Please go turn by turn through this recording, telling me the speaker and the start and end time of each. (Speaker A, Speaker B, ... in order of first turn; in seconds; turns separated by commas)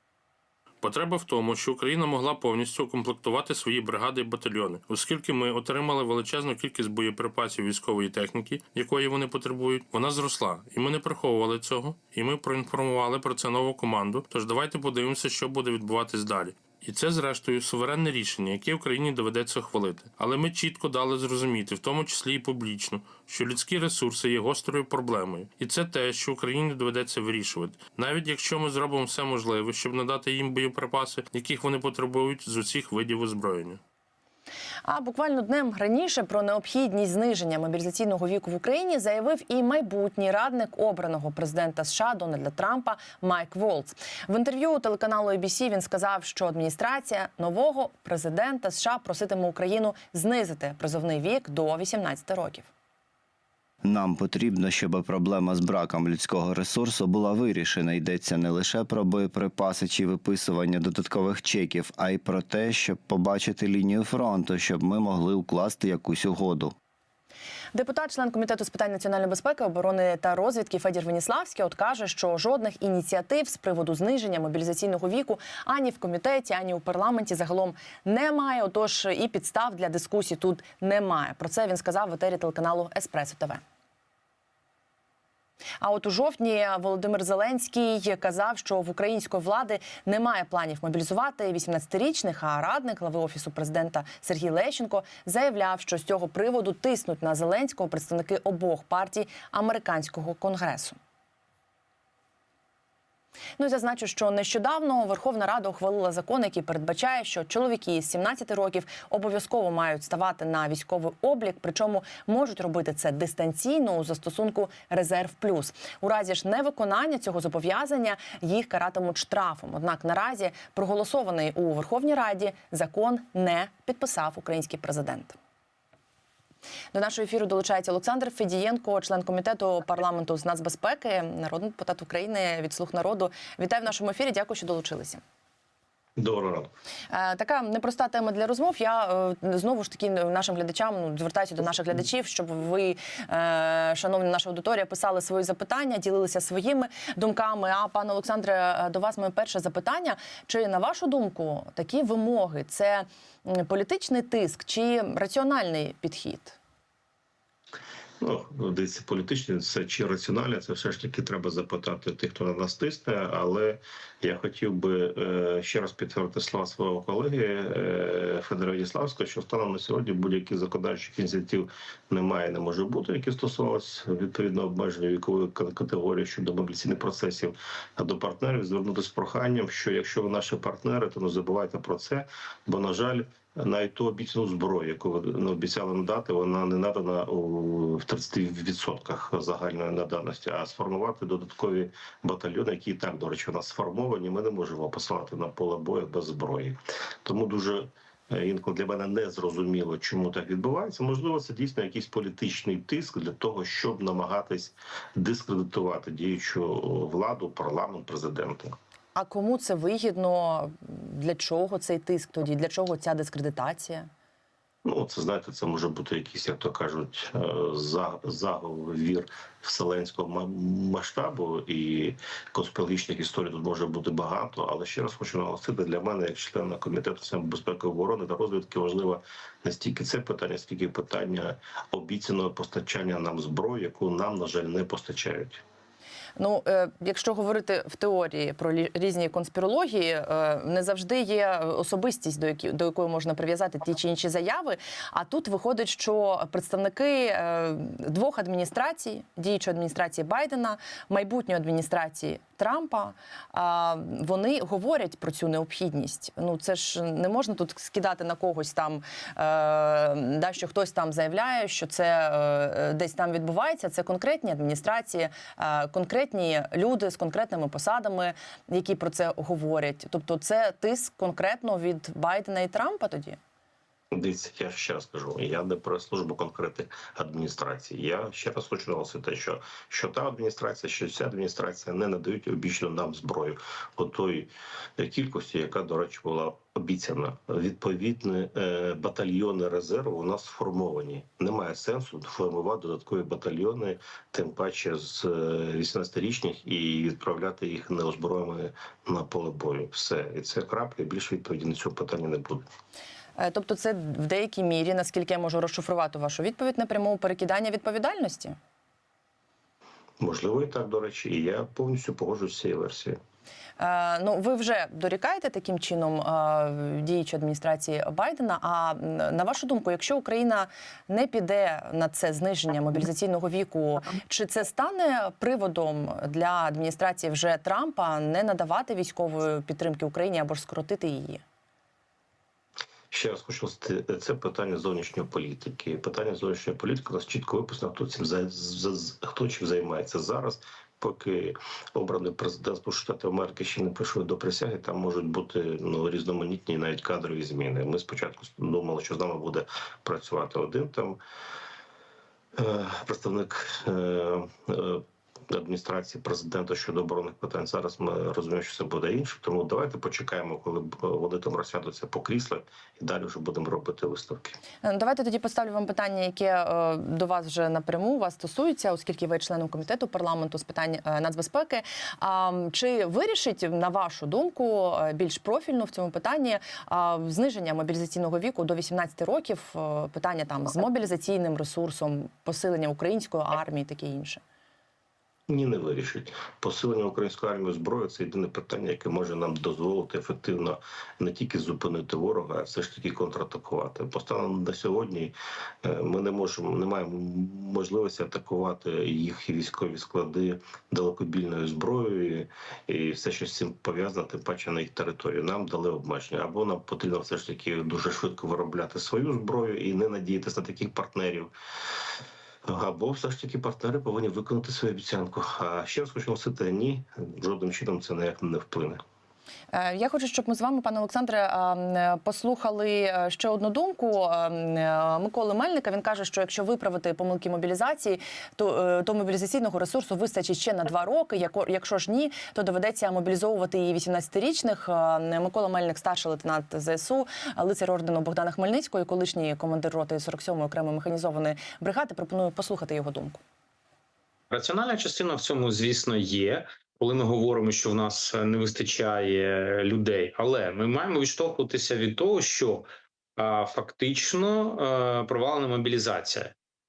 Speaker A: 0.8-33.8, Speaker B: 34.8-52.7, Speaker C: 53.8-66.7, Speaker B: 67.7-83.6, Speaker B: 85.8-101.0, Speaker B: 103.6-125.4, Speaker B: 126.9-135.2, Speaker D: 136.2-136.7, Speaker B: 137.1-156.6, Speaker D: 158.2-208.7, Speaker B: 209.2-214.1, Speaker D: 214.8-235.6, Speaker B: 236.4-273.4, Speaker D: 274.1-302.7, Speaker B: 303.4-308.6, Speaker D: 310.2-313.2, Speaker B: 313.8-331.4, Speaker D: 333.1-351.2, Speaker D: 352.6-364.6, Speaker B: 364.8-384.4, Speaker D: 385.5-411.5, Speaker D: 412.7-419.0, Speaker B: 419.7-443.4, Speaker E: 444.5-452.9, Speaker E: 453.4-456.5